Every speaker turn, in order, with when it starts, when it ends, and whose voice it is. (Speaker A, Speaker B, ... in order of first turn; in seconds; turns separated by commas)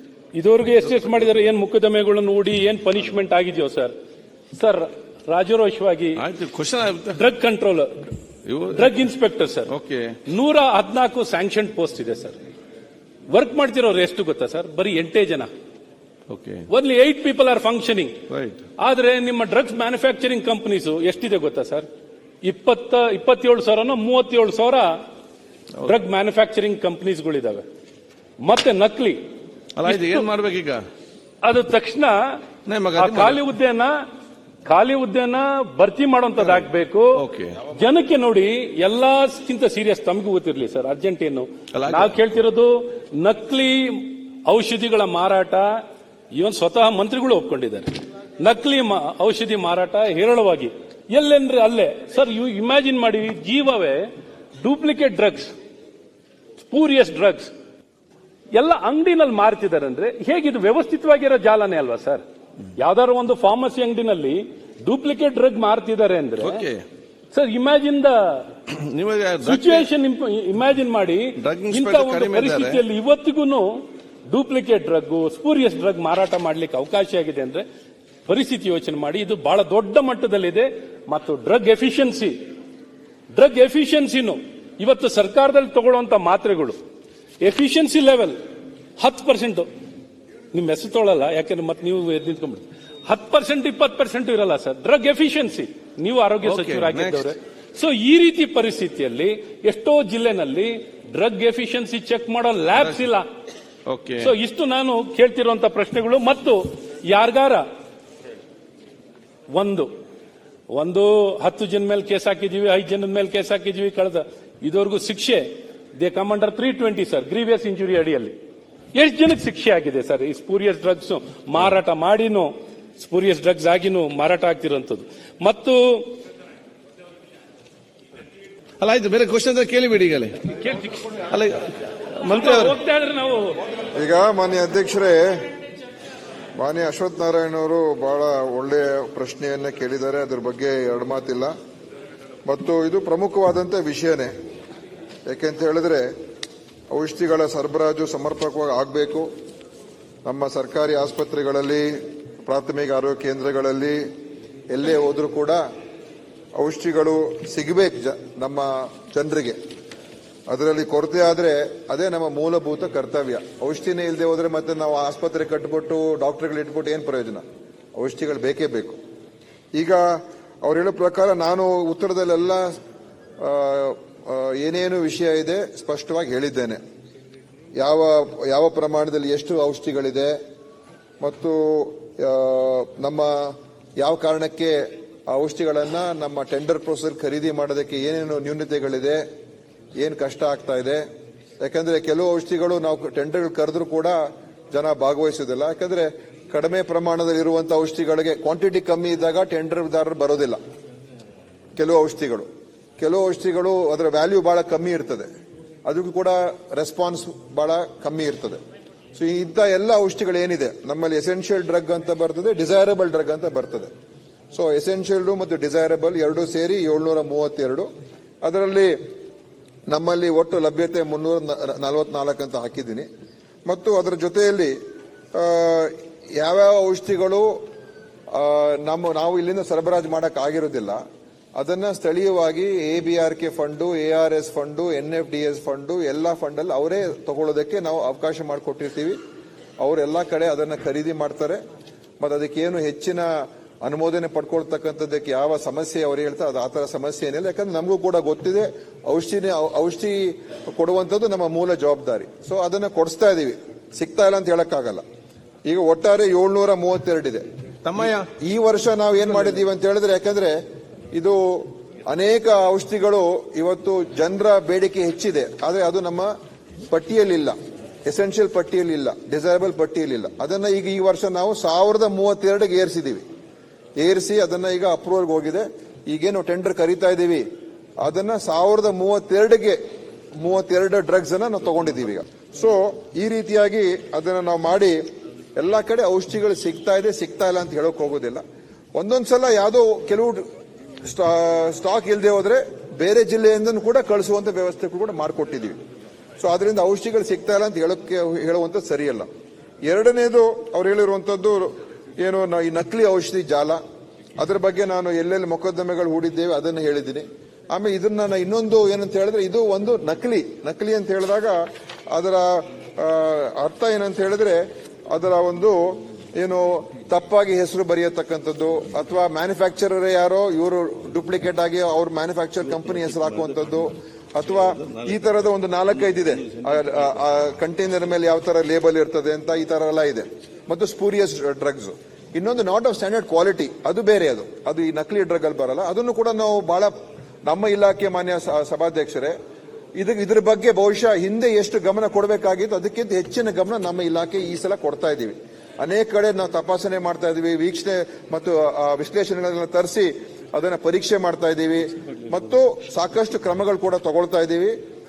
Speaker A: 0.3-3.9, Speaker A: 4.5-6.2, Speaker B: 6.2-7.2, Speaker A: 7.2-7.9, Speaker B: 8.5-9.0, Speaker A: 8.7-9.7, Speaker B: 9.7-10.2, Speaker A: 10.3-12.4, Speaker A: 13.3-15.5, Speaker B: 16.3-16.7, Speaker A: 16.7-18.2, Speaker B: 18.3-18.6, Speaker A: 18.8-21.9, Speaker A: 22.4-24.9, Speaker A: 25.8-27.6, Speaker A: 28.4-29.2, Speaker B: 29.8-30.8, Speaker A: 29.9-30.2, Speaker A: 31.4-32.2, Speaker B: 32.7-33.4, Speaker A: 33.0-33.9, Speaker A: 34.7-37.1, Speaker B: 36.4-36.7, Speaker B: 37.2-37.6, Speaker A: 37.7-45.8, Speaker B: 41.7-42.1, Speaker A: 46.4-54.0, Speaker A: 54.6-55.5, Speaker A: 56.7-57.5, Speaker A: 58.5-62.2, Speaker A: 62.8-66.6, Speaker B: 66.4-66.8, Speaker A: 67.3-68.5, Speaker B: 68.7-69.8, Speaker A: 69.4-73.7, Speaker B: 71.4-72.8, Speaker A: 74.3-77.7, Speaker A: 78.3-82.3, Speaker A: 83.3-86.8, Speaker A: 87.4-88.4, Speaker A: 89.0-89.7, Speaker A: 90.5-103.3, Speaker B: 96.4-97.3, Speaker B: 103.9-104.3, Speaker A: 104.2-107.6, Speaker A: 109.5-109.9, Speaker A: 110.7-115.4, Speaker A: 116.0-118.3, Speaker A: 119.0-126.1, Speaker B: 128.8-130.4, Speaker A: 130.6-131.1, Speaker B: 131.3-132.8, Speaker A: 132.3-133.6, Speaker C: 133.9-135.5, Speaker C: 136.6-141.5, Speaker C: 142.5-144.3, Speaker C: 145.3-146.1, Speaker C: 146.9-149.3, Speaker C: 150.2-154.1, Speaker C: 154.7-155.6, Speaker C: 156.6-159.6, Speaker C: 160.5-167.4, Speaker C: 168.0-169.0, Speaker C: 169.8-172.8, Speaker C: 173.4-176.8, Speaker C: 177.8-180.4, Speaker C: 181.2-189.2, Speaker C: 190.0-191.0, Speaker C: 191.6-194.2, Speaker C: 194.7-200.6, Speaker C: 201.8-202.5, Speaker C: 203.0-205.3, Speaker C: 205.8-208.6, Speaker C: 209.2-213.9, Speaker C: 214.5-217.9, Speaker C: 218.4-219.0, Speaker C: 219.9-223.1, Speaker C: 223.7-224.8, Speaker C: 225.3-227.6, Speaker C: 228.3-231.0, Speaker C: 231.6-239.2, Speaker C: 239.8-241.6, Speaker C: 242.2-255.0, Speaker C: 255.7-257.4, Speaker B: 257.9-258.3, Speaker C: 258.4-260.6, Speaker C: 261.1-266.3, Speaker C: 266.9-273.2, Speaker C: 274.0-277.4, Speaker C: 278.0-279.8, Speaker C: 280.4-285.0, Speaker C: 285.6-288.4, Speaker C: 288.9-290.4, Speaker C: 291.0-295.8, Speaker C: 296.4-299.3, Speaker C: 299.9-303.8, Speaker C: 304.4-336.9, Speaker B: 322.9-323.5, Speaker B: 324.6-325.2, Speaker B: 326.2-327.0, Speaker C: 337.5-339.4, Speaker C: 340.0-354.8